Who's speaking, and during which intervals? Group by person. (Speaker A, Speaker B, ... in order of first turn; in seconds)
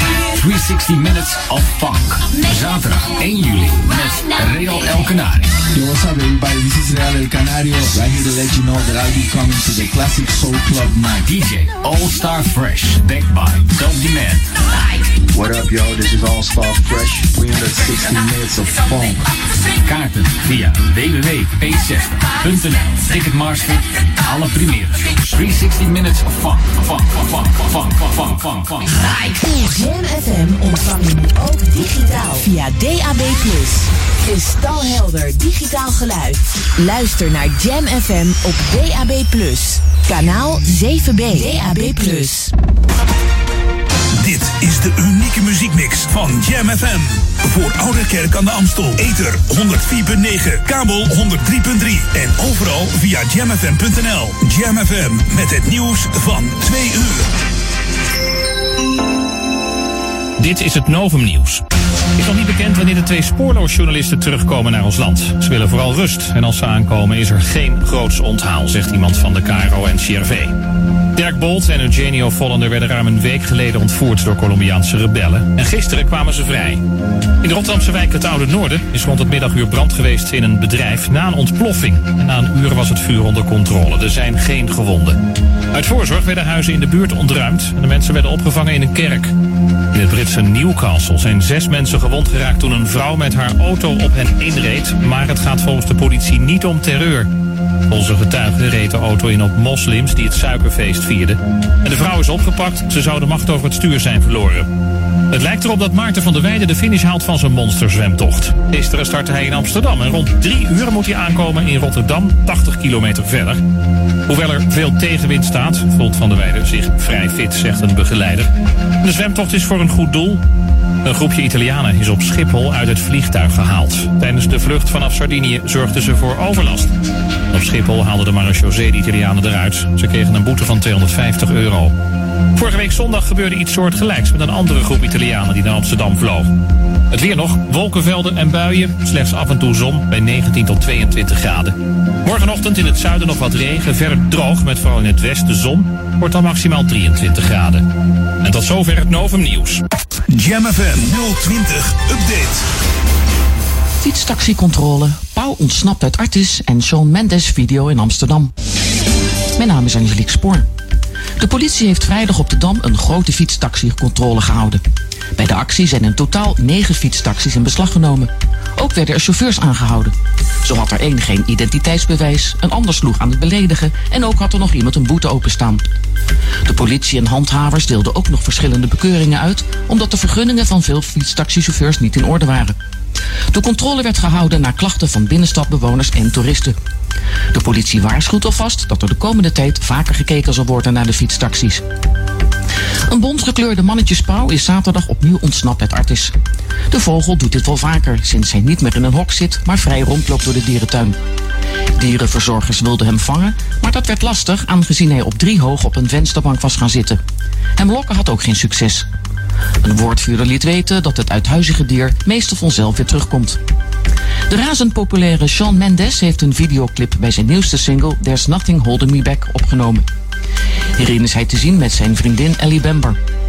Speaker A: 0.3-5.5, 11.2-14.5, 19.9-28.9
Speaker B: 5.7-11.2
Speaker C: 15.3-19.3
Speaker D: 29.3-42.5
Speaker E: 44.1-57.3, 150.3-152.7
Speaker F: 60.4-61.6, 62.2-70.5, 71.2-76.8, 77.4-85.2, 85.7-89.3, 89.9-97.3, 97.9-104.7, 105.3-113.6, 114.3-118.5, 119.0-120.4, 121.0-126.9, 127.5-131.9, 132.6-136.5, 137.1-147.8, 148.4-149.8
Speaker G: 154.0-158.5, 159.6-160.7, 161.4-164.8, 165.4-175.9, 176.7-182.8, 183.5-186.8, 187.5-191.8, 193.1-196.3, 196.9-201.2, 202.0-207.2, 207.8-209.1, 209.8-213.6, 214.5-220.1, 221.0-223.2